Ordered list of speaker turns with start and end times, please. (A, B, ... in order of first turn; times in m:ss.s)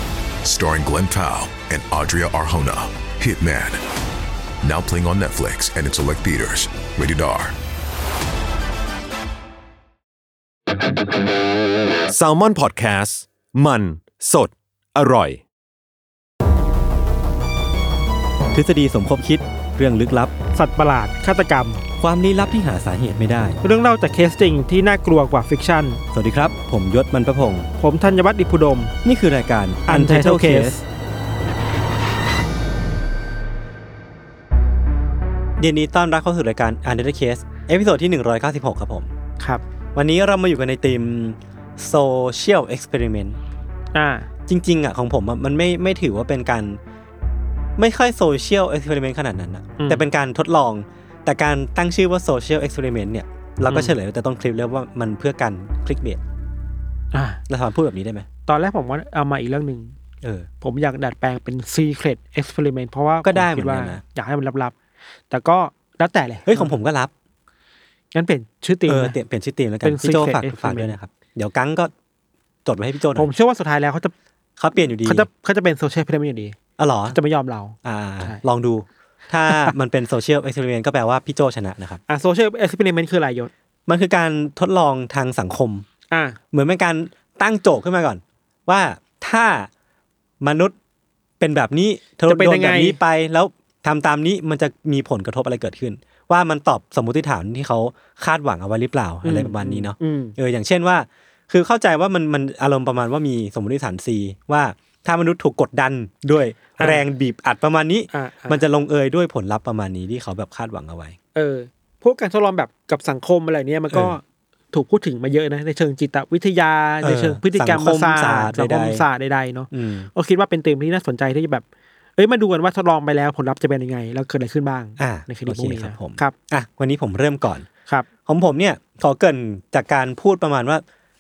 0:00.4-0:03.8 A
0:04.6-0:07.6 A
0:12.1-0:15.4 B
0:18.5-0:20.3 C
0:20.5-0:21.8 D
0:22.0-0:23.6 C
0:23.6-0:26.0 D
0:26.1-0:27.7 C
0:27.8-0:28.9 D
0:29.0-0:30.8 C
0:29.9-0:30.8 D
0:35.6-0:39.1 C
0:40.0-0:43.4 C
0:43.9-0:44.3 D
0:44.5-0:46.8 C
0:47.8-0:56.2 C
0:49.8-0:50.0 D
0:53.7-0:54.0 D
0:57.1-0:57.4 D
0:57.5-0:58.3 C
0:58.5-1:00.0 D
1:00.2-1:00.5 C
1:00.6-1:04.8 D
1:03.2-1:04.0 C
1:05.3-1:06.7 D
1:06.5-1:07.1 C
1:08.1-1:09.2 D
1:08.9-1:11.9 C
1:09.8-1:11.0 D
1:12.6-1:13.3 C
1:13.2-1:14.1 D
1:14.6-1:15.3 C
1:15.0-1:16.6 D
1:16.8-1:17.2 C
1:17.1-1:18.4 D
1:17.8-1:22.0 C
1:19.5-1:19.7 D
1:22.1-1:23.5 D
1:23.9-1:25.9 C
1:26.1-1:26.4 D
1:26.5-1:29.7 C
1:30.4-1:30.8 C
1:31.4-1:51.2 C
1:32.3-1:33.0 D
1:39.2-1:40.4 D
1:46.8-1:47.0 D
1:48.1-1:48.6 D
1:51.3-2:01.6 D
1:53.9-1:54.2 C
1:57.0-1:59.0 C
1:59.7-2:00.1 C
2:02.2-2:06.3 D
2:05.0-2:07.7 C
2:08.3-2:10.8 C